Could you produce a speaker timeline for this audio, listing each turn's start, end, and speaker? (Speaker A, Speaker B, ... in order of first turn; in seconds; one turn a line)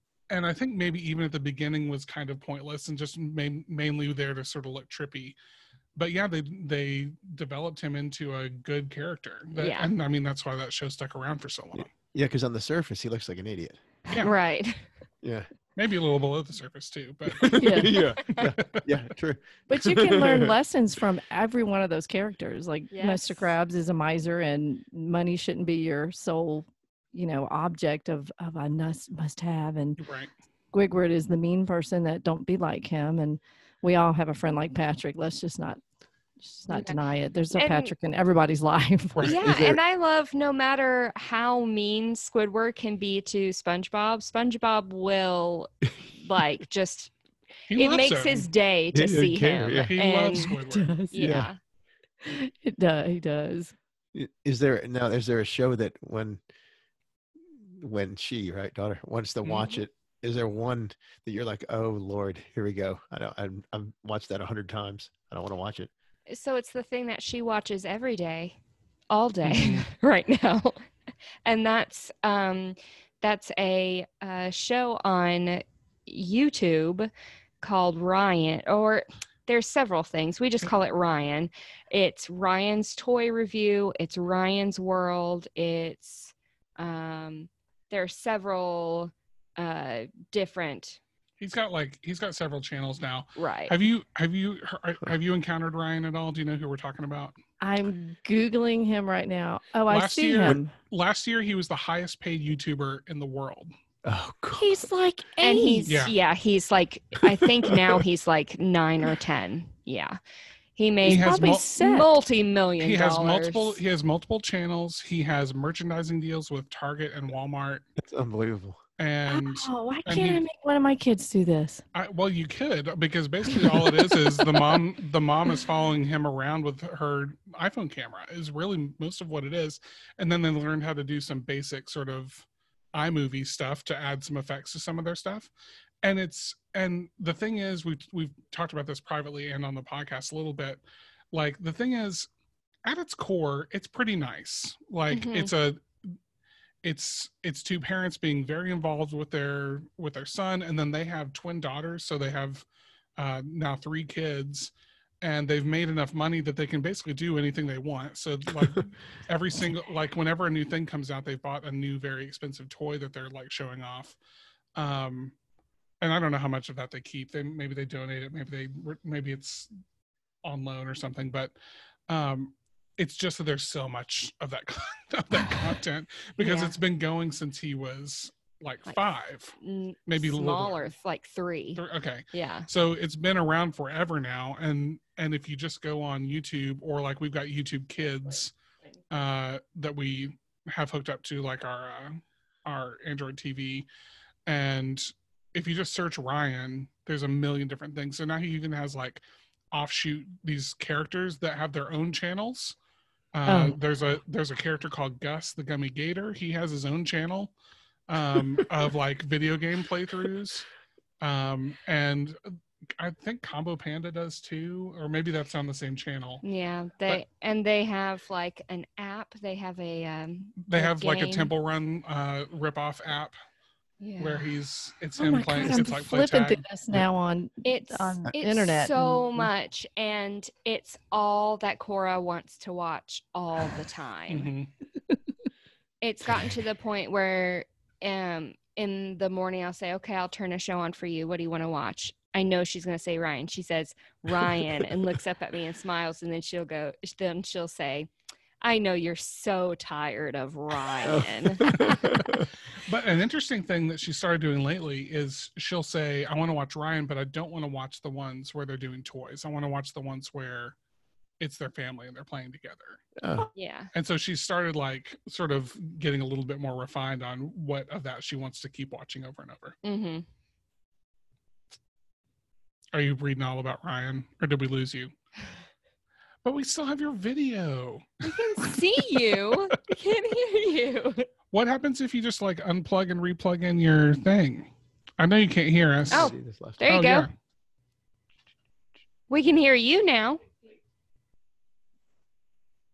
Speaker A: 0.3-5.4
Speaker A: 6.0-11.9
Speaker B: 9.5-9.9
Speaker C: 11.8-13.8
Speaker B: 14.1-14.9
Speaker C: 15.2-15.5
Speaker A: 15.8-18.9
Speaker C: 17.3-20.5
Speaker D: 17.5-17.9
Speaker D: 19.7-30.0
Speaker B: 22.9-23.5
Speaker A: 30.0-30.3
Speaker D: 30.7-35.8
Speaker D: 36.4-39.4
Speaker B: 36.7-37.0
Speaker B: 37.5-37.9
Speaker A: 39.1-39.6
Speaker B: 39.2-47.1
Speaker C: 39.4-39.8
Speaker A: 47.7-48.5
Speaker B: 47.7-50.5
Speaker C: 48.9-49.9
Speaker A: 49.8-50.9
Speaker D: 50.4-51.5
Speaker B: 51.1-51.6
Speaker C: 51.2-51.5
Speaker D: 52.2-53.8
Speaker C: 54.1-56.4
Speaker C: 57.6-65.9
Speaker A: 59.4-59.7
Speaker B: 66.3-68.6
Speaker B: 69.1-70.8
Speaker A: 69.4-69.9
Speaker B: 71.5-77.1
Speaker B: 77.6-91.0
Speaker A: 91.4-97.3
Speaker B: 93.4-93.8
Speaker D: 97.6-100.7
Speaker A: 99.9-103.7
Speaker C: 104.0-104.9
Speaker D: 104.5-106.1
Speaker B: 105.4-110.2
Speaker A: 105.9-106.1
Speaker C: 107.7-108.0
Speaker B: 110.8-113.8
Speaker D: 111.0-112.1
Speaker A: 111.0-111.7
Speaker A: 112.8-117.8
Speaker C: 118.0-118.8
Speaker A: 119.0-120.4
Speaker D: 119.3-121.8
Speaker A: 121.9-135.5
Speaker D: 123.5-124.6
Speaker A: 136.0-140.8
Speaker A: 141.3-142.3
Speaker A: 142.8-145.8
Speaker B: 145.1-145.5
Speaker A: 146.8-152.6
Speaker A: 153.2-154.7
Speaker A: 155.2-164.2
Speaker A: 164.8-165.3
Speaker A: 166.0-169.7
Speaker A: 170.4-171.5
Speaker A: 172.1-179.6
Speaker B: 176.4-176.8
Speaker B: 179.6-181.8
Speaker A: 180.1-180.8
Speaker A: 181.8-188.5
Speaker B: 182.3-182.7
Speaker A: 189.1-193.9
Speaker A: 194.5-202.8
Speaker A: 203.3-207.5
Speaker D: 203.5-203.8
Speaker A: 208.1-210.7
Speaker A: 211.2-212.4
Speaker A: 213.0-216.4
Speaker B: 216.4-221.5
Speaker A: 220.6-223.3
Speaker B: 224.0-224.5
Speaker A: 224.2-226.6
Speaker D: 225.2-229.4
Speaker B: 227.6-234.5
Speaker A: 234.3-234.7
Speaker B: 236.0-248.1
Speaker B: 248.6-251.9
Speaker C: 251.0-252.5
Speaker A: 252.8-260.8
Speaker A: 261.4-263.0
Speaker C: 263.2-263.5
Speaker B: 263.5-263.9
Speaker A: 263.9-269.8
Speaker B: 269.8-270.2
Speaker A: 272.9-275.1
Speaker A: 276.4-278.8
Speaker B: 278.2-281.3
Speaker A: 281.5-286.3
Speaker C: 286.1-286.8
Speaker B: 286.1-287.3
Speaker A: 286.8-287.3
Speaker B: 289.3-290.4